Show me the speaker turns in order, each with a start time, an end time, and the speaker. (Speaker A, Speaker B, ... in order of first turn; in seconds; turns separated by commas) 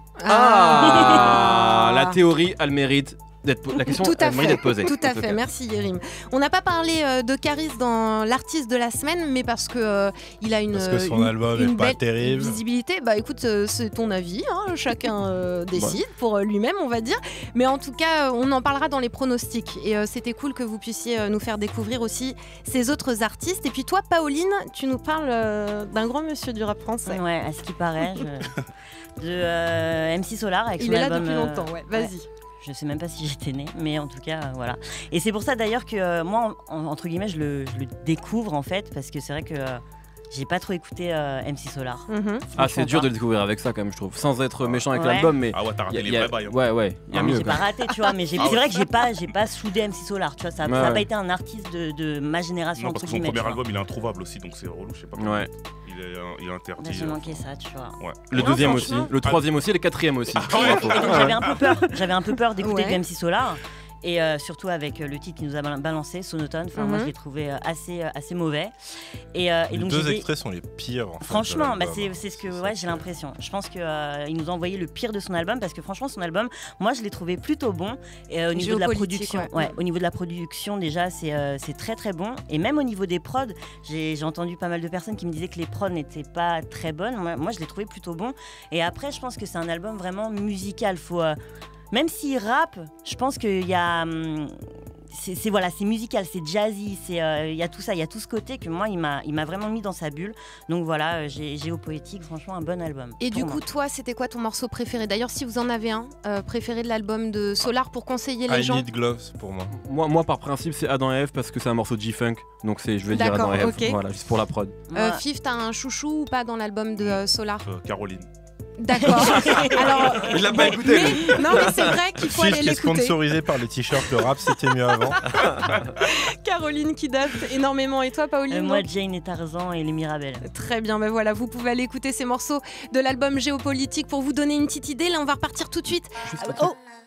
Speaker A: 0.2-2.2, Speaker B: 0.3-5.4, Speaker A: 3.9-27.2, Speaker C: 10.7-12.6, Speaker D: 27.1-28.6, Speaker D: 29.2-43.1, Speaker A: 30.8-32.2, Speaker A: 42.1-42.5, Speaker B: 42.5-47.6, Speaker D: 44.9-45.3, Speaker E: 45.5-46.6, Speaker D: 47.1-53.6, Speaker E: 48.4-48.9, Speaker B: 50.6-51.1, Speaker E: 52.8-57.4, Speaker B: 55.1-55.5, Speaker D: 56.8-58.9, Speaker E: 58.0-59.4, Speaker B: 58.3-61.5, Speaker A: 58.5-59.1, Speaker E: 60.3-61.5, Speaker D: 60.5-68.7, Speaker A: 62.6-63.0, Speaker A: 66.8-67.1, Speaker D: 69.3-70.3, Speaker C: 69.7-73.1, Speaker D: 71.2-91.4, Speaker A: 78.5-79.7, Speaker D: 91.9-94.6, Speaker D: 95.1-103.6, Speaker A: 103.2-108.8, Speaker C: 108.5-109.7, Speaker B: 109.7-114.8, Speaker A: 113.1-114.0, Speaker D: 114.9-115.2, Speaker A: 114.9-117.6, Speaker E: 117.0-118.3, Speaker A: 118.8-123.2, Speaker E: 119.3-119.7, Speaker B: 120.1-122.0, Speaker C: 122.2-125.2, Speaker A: 125.7-128.8, Speaker D: 128.5-130.5, Speaker A: 130.4-136.8, Speaker B: 136.2-136.7